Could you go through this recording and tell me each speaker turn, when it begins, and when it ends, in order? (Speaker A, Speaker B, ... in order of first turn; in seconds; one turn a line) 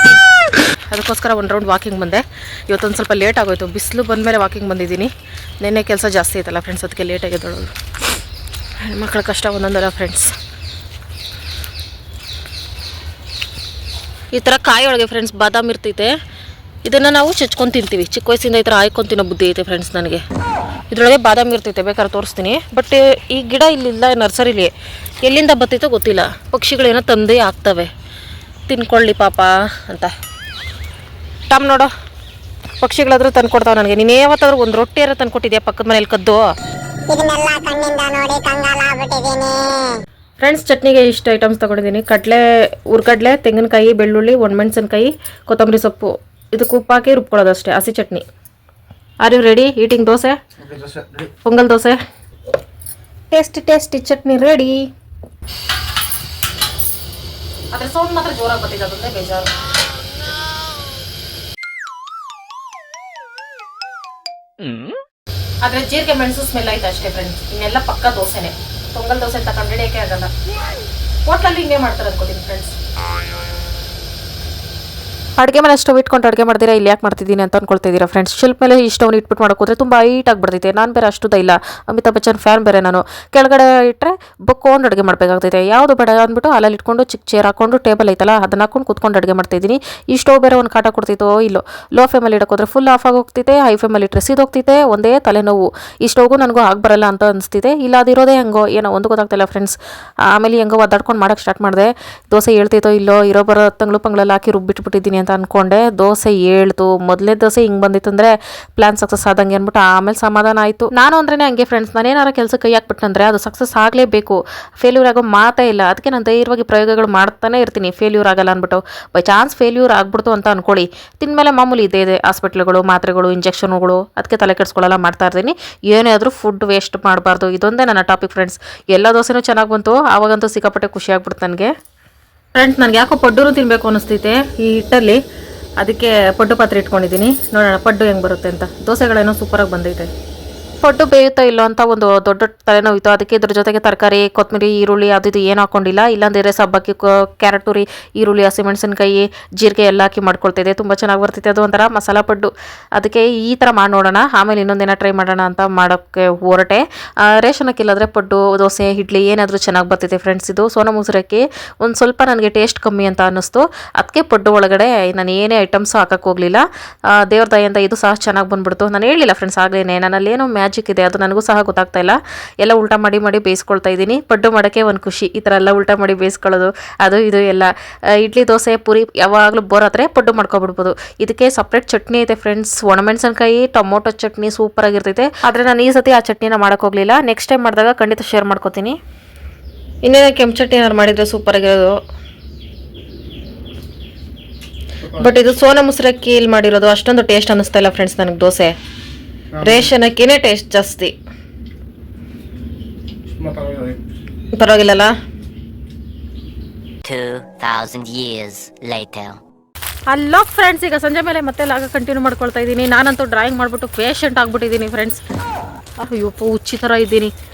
Speaker A: 0.9-7.7
Speaker A: 8.8-10.3
Speaker A: 14.3-16.1
Speaker A: 16.9-20.2
Speaker A: 20.9-27.9
Speaker A: 28.7-30.1
Speaker A: 31.5-31.9
Speaker A: 32.8-36.4
Speaker B: 37.1-40.0
Speaker A: 40.4-48.2
Speaker A: 49.2-50.4
Speaker C: 50.6-51.3
Speaker A: 51.4-52.0
Speaker A: 53.3-54.8
Speaker A: 57.7-59.5
Speaker A: 65.6-70.3
Speaker A: 71.3-72.7
Speaker A: 75.4-99.8
Speaker A: 100.3-131.7
Speaker A: 132.5-135.2
Speaker A: 135.8-140.1
Speaker A: 140.8-189.0
Speaker A: 190.0-191.9
Speaker C: 195.0-195.3
Speaker A: 195.2-198.7
Speaker C: 199.5-199.9
Speaker A: 199.6-201.1
Speaker C: 203.3-204.0
Speaker A: 204.6-205.1
Speaker D: 207.0-209.4
Speaker A: 210.1-215.2
Speaker A: 216.0-217.3